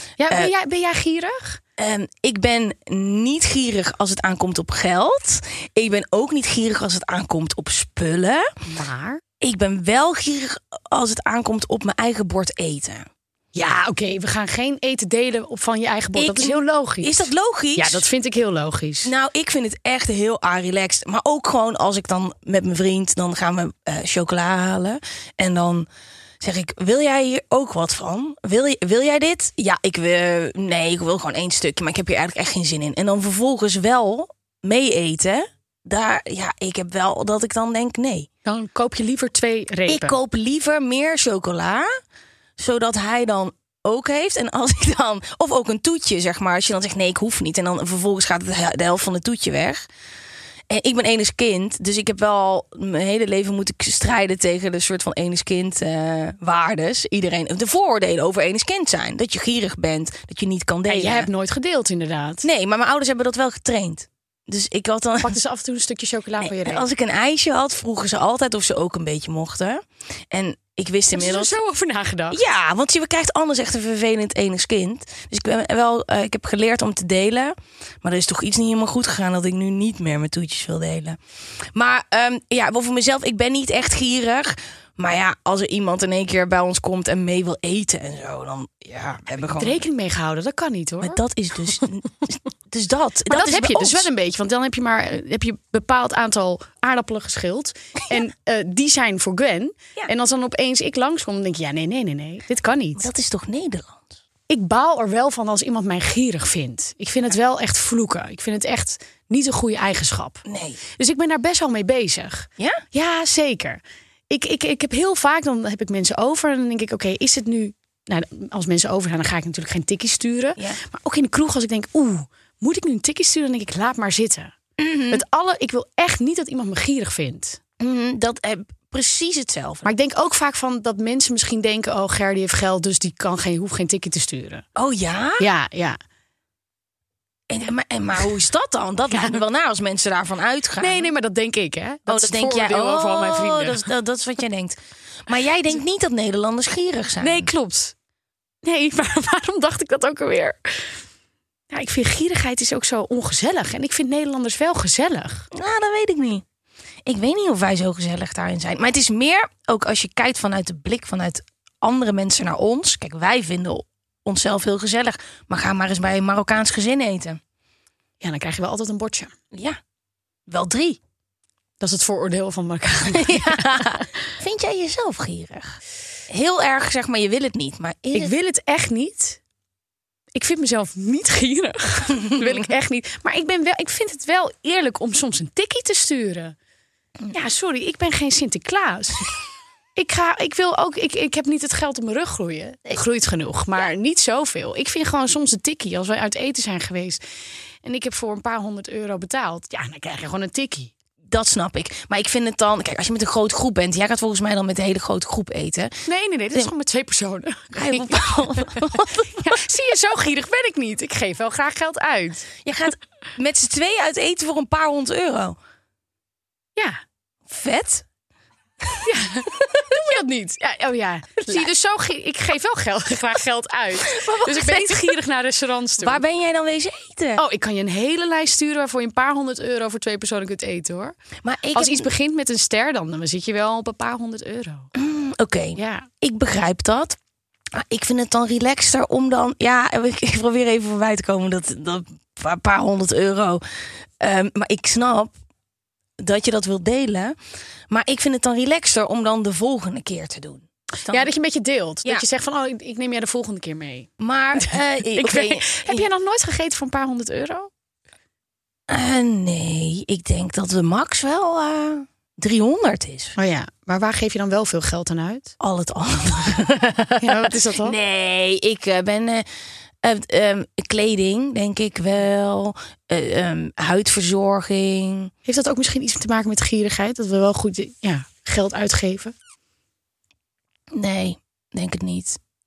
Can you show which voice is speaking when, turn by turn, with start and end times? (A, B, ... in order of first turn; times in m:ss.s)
0:00.2-0:01.6 A
0:01.8-0:08.5 B
0:08.6-0:09.2 A
0:09.4-0:13.0 B
0:13.5-0:19.1 A
0:16.2-0:18.0 B
0:19.0-0:25.8 B
0:26.4-0:38.3 B
0:38.4-0:40.2 A
0:39.9-0:41.9 B
0:42.6-0:49.8 B
0:50.7-1:01.3 B
1:00.9-1:02.4 A
1:02.4-1:05.4 B
1:05.2-1:06.8 A
1:06.4-1:11.5 B
1:11.1-1:12.4 A
1:12.3-1:21.2 B
1:21.7-1:29.8 B
1:29.6-1:31.2 A
1:31.0-1:34.1 B
1:33.3-1:43.1 A
1:43.0-1:44.1 B
1:44.5-1:50.4 A
1:50.4-1:50.8 B
1:51.0-2:04.5 A
2:04.8-2:05.2 B
2:05.1-2:07.6 A
2:07.8-2:09.9 B
2:09.8-2:14.6 A
2:14.8-2:15.4 B
2:15.4-2:16.0 A
2:17.5-2:21.1 B
2:19.1-2:19.4 A
2:20.8-2:23.8 A
2:22.1-2:27.5 B
2:27.2-2:27.9 A
2:28.6-2:30.9 A
2:31.7-2:35.5 A
2:35.5-2:36.4 B
2:37.0-2:47.4 B
2:48.2-2:49.3 A
2:49.5-2:49.8 B
2:50.5-2:51.0 B
2:51.8-2:54.0 A
2:53.1-2:58.3 B
2:58.1-2:59.4 A
3:00.3-3:06.6 A
3:02.3-3:02.6 B
3:07.3-3:09.3 A
3:10.0-3:17.2 A
3:17.8-3:20.9 A
3:21.3-3:26.0 B
3:26.0-3:32.5 A
3:27.7-3:29.6 B
3:32.6-3:35.6 B
3:37.5-3:38.0 B
3:39.0-3:46.2 A
3:44.1-3:45.1 B
3:46.0-3:47.4 B
3:47.4-3:51.2 A
3:51.4-3:52.1 B
3:51.7-3:54.9 A
3:55.0-3:57.2 B
3:55.8-3:56.1 A
3:57.7-4:03.6 B
4:04.2-4:05.3 B
4:06.2-4:07.3 B
4:07.9-4:11.3 B
4:11.1-4:17.7 A
4:14.2-4:16.0 B
4:18.9-4:23.3 B
4:23.4-4:25.5 A
4:25.6-4:29.4 B
4:27.2-4:28.0 A
4:30.0-4:35.3 B
4:35.4-4:39.3 A
4:40.9-4:42.4 B